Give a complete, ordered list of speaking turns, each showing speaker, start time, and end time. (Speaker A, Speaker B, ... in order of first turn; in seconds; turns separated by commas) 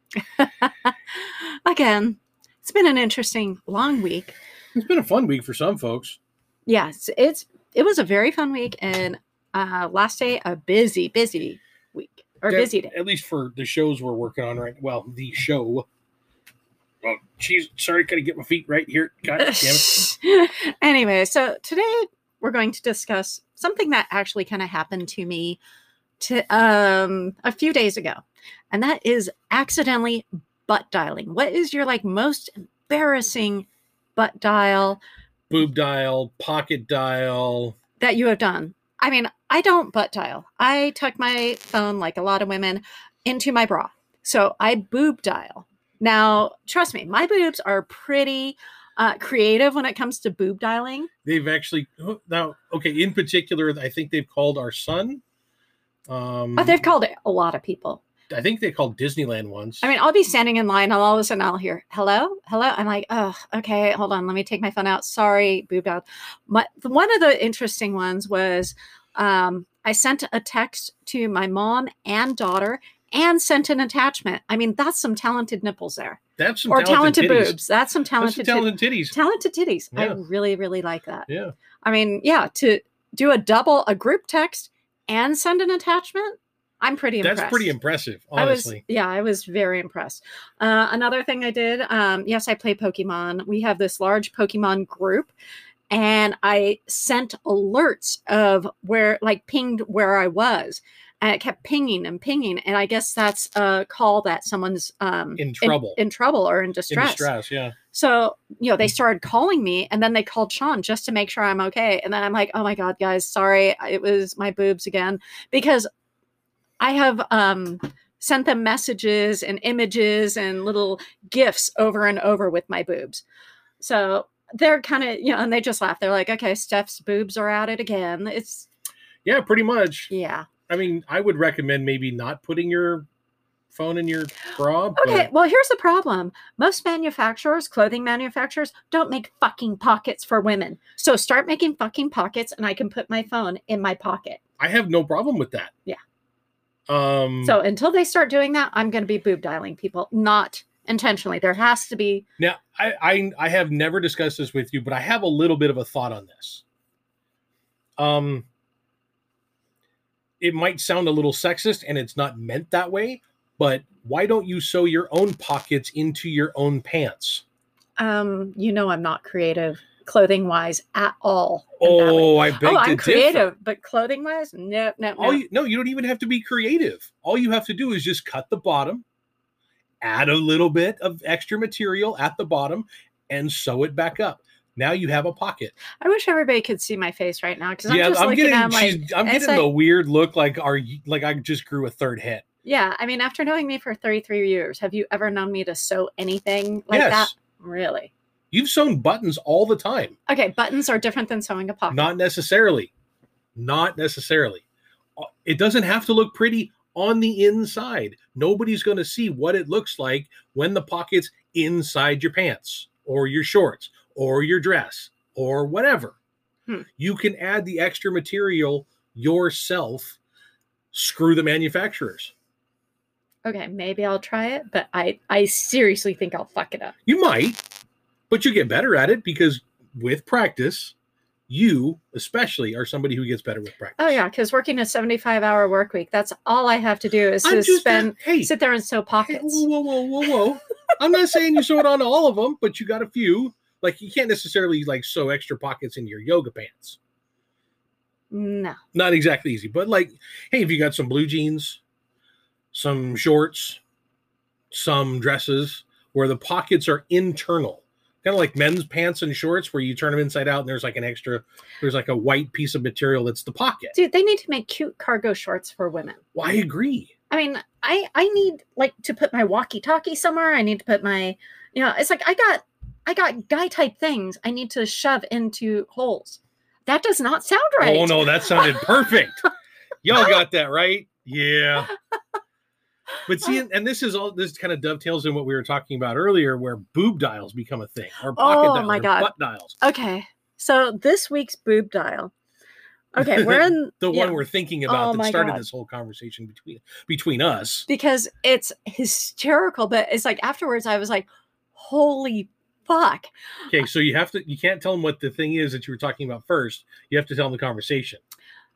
Speaker A: 0.3-4.3, Speaker B: 4.8-6.2, Speaker A: 6.7-12.9, Speaker B: 12.5-15.9, Speaker B: 17.0-20.1, Speaker A: 19.4-25.6, Speaker A: 26.2-35.0, Speaker B: 35.5-37.8, Speaker A: 38.0-51.1, Speaker B: 51.2-55.2, Speaker B: 56.1-56.8, Speaker A: 56.6-58.0, Speaker B: 58.3-59.9, Speaker A: 59.8-81.3, Speaker B: 76.4-77.6, Speaker B: 78.2-79.2, Speaker B: 81.3-81.5, Speaker A: 81.8-87.7, Speaker B: 87.2-88.8, Speaker A: 88.3-95.3, Speaker A: 95.9-107.3, Speaker B: 105.4-106.0, Speaker B: 106.9-107.8, Speaker A: 107.9-115.9, Speaker A: 116.8-123.2, Speaker A: 123.8-128.7, Speaker B: 129.2-130.1, Speaker A: 130.1-130.5, Speaker B: 130.7-133.1, Speaker B: 133.7-135.3, Speaker A: 135.0-144.4, Speaker B: 144.6-145.7, Speaker B: 146.9-147.6, Speaker A: 147.4-152.2, Speaker B: 152.4-156.6, Speaker B: 158.0-158.4, Speaker B: 160.4-167.4, Speaker A: 168.0-175.4, Speaker B: 171.8-173.5, Speaker B: 175.2-179.0, Speaker B: 180.0-185.8, Speaker A: 186.0-189.7, Speaker B: 187.9-192.4, Speaker A: 192.6-198.1, Speaker B: 196.9-197.3, Speaker B: 198.5-200.2, Speaker A: 200.3-202.1, Speaker B: 201.9-202.9, Speaker B: 203.5-204.6, Speaker B: 205.2-216.2, Speaker B: 217.0-220.2, Speaker B: 220.9-222.3, Speaker A: 223.4-226.9, Speaker B: 227.1-227.6, Speaker B: 228.3-230.9, Speaker B: 231.5-234.2, Speaker A: 234.0-239.7, Speaker B: 237.4-238.5, Speaker B: 239.2-247.0, Speaker A: 248.3-248.8, Speaker B: 248.9-251.8, Speaker B: 252.7-253.8, Speaker B: 254.7-263.9, Speaker A: 263.9-266.2, Speaker B: 266.3-267.1, Speaker A: 267.3-278.9, Speaker B: 277.8-279.4, Speaker B: 280.0-281.9, Speaker B: 283.2-289.8, Speaker A: 288.3-292.3, Speaker A: 293.1-295.6, Speaker B: 293.2-297.9, Speaker A: 297.9-303.3, Speaker B: 303.7-308.2